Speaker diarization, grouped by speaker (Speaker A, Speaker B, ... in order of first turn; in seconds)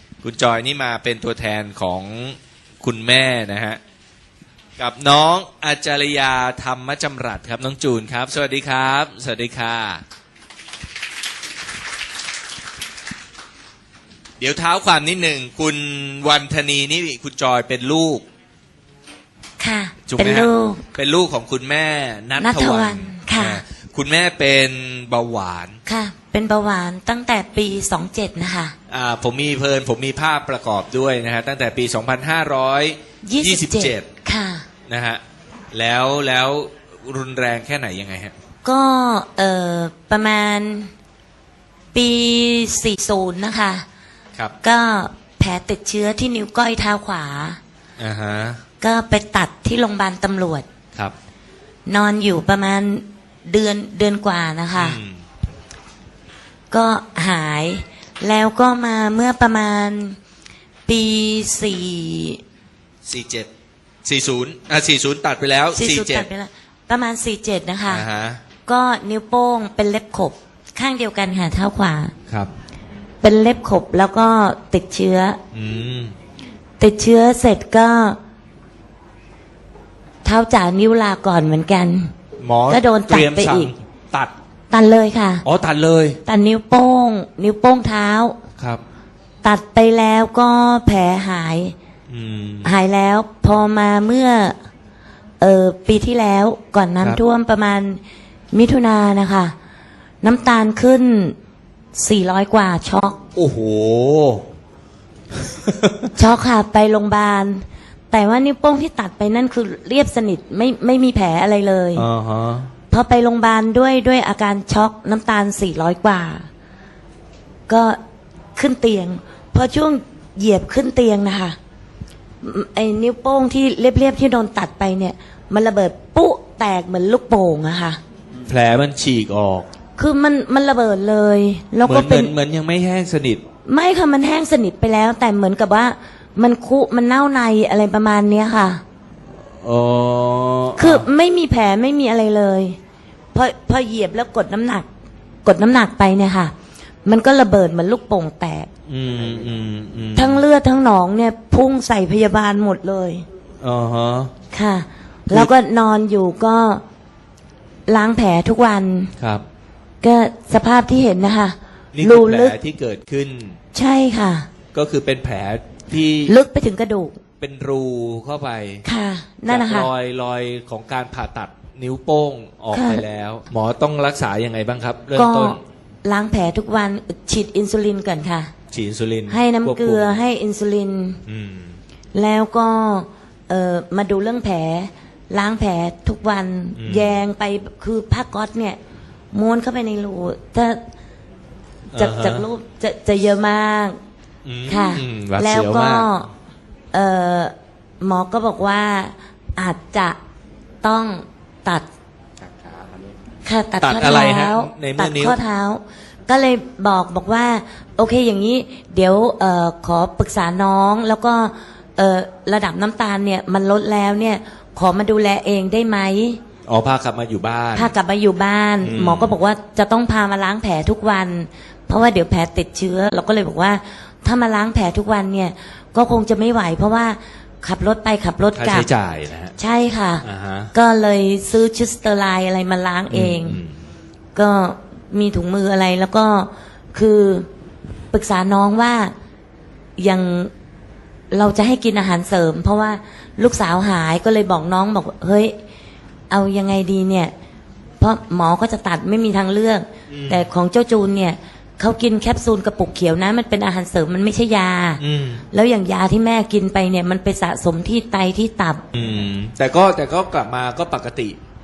Speaker A: 0.2-3.8, 4.8-10.0, 14.4-18.2, 20.1-25.8, 28.9-34.1, 34.9-35.2, 35.7-38.3, 48.0-48.6, 54.7-55.2, 63.0-63.5, 64.0-66.3, 67.9-68.4, 75.5-76.1, 82.4-84.3, 85.4-86.2, 92.1-92.7, 103.3-104.4, 105.5-106.1, 111.9-112.7, 128.4-129.7, 131.8-133.4, 139.6-141.1, 148.9-150.4, 153.6-154.3, 159.2-159.4, 161.9-163.6, 164.7-166.4, 167.4-168.8, 169.5-175.6, 178.7-180.2, 181.3-181.8, 186.8-187.2, 191.9-192.4, 194.4-196.1, 203.8-205.4, 216.7-217.9, 218.8-219.4, 228.5-229.5, 230.2-230.7, 233.1-233.8, 250.1-250.4, 255.0-255.4, 258.9-261.4
Speaker B: 19.6-20.8, 22.4-23.6, 25.9-28.7, 33.2-34.6, 38.6-40.9, 41.9-43.8, 44.6-47.6, 48.8-50.6, 51.9-55.0, 56.7-60.2, 60.9-62.4, 65.7-68.0, 68.7-72.1, 73.2-75.4, 76.8-78.2, 80.2-82.1, 82.7-83.7, 84.7-85.4, 86.2-88.4, 89.4-91.7, 92.6-94.6, 95.4-98.0, 98.5-99.5, 100.2-101.3, 101.9-103.2, 106.1-112.0, 112.9-116.5, 117.7-118.0, 118.5-121.6, 122.4-128.0, 130.0-132.3, 133.6-138.8, 140.8-142.8, 143.3-144.9, 145.4-146.5, 147.0-148.7, 150.1-153.2, 154.5-156.8, 157.9-159.1, 160.0-162.6, 163.7-164.5, 166.2-167.2, 168.8-169.9, 172.7-173.0, 175.1-178.5, 179.3-181.2, 182.1-188.8, 189.3-190.8, 191.9-194.0, 194.7-196.3, 196.9-200.2, 200.8-201.8, 203.4-216.4, 217.7-228.9, 229.6-233.6, 234.3-237.5, 238.1-239.1, 240.0-240.5, 241.3-245.5, 246.3-247.3, 248.0-258.8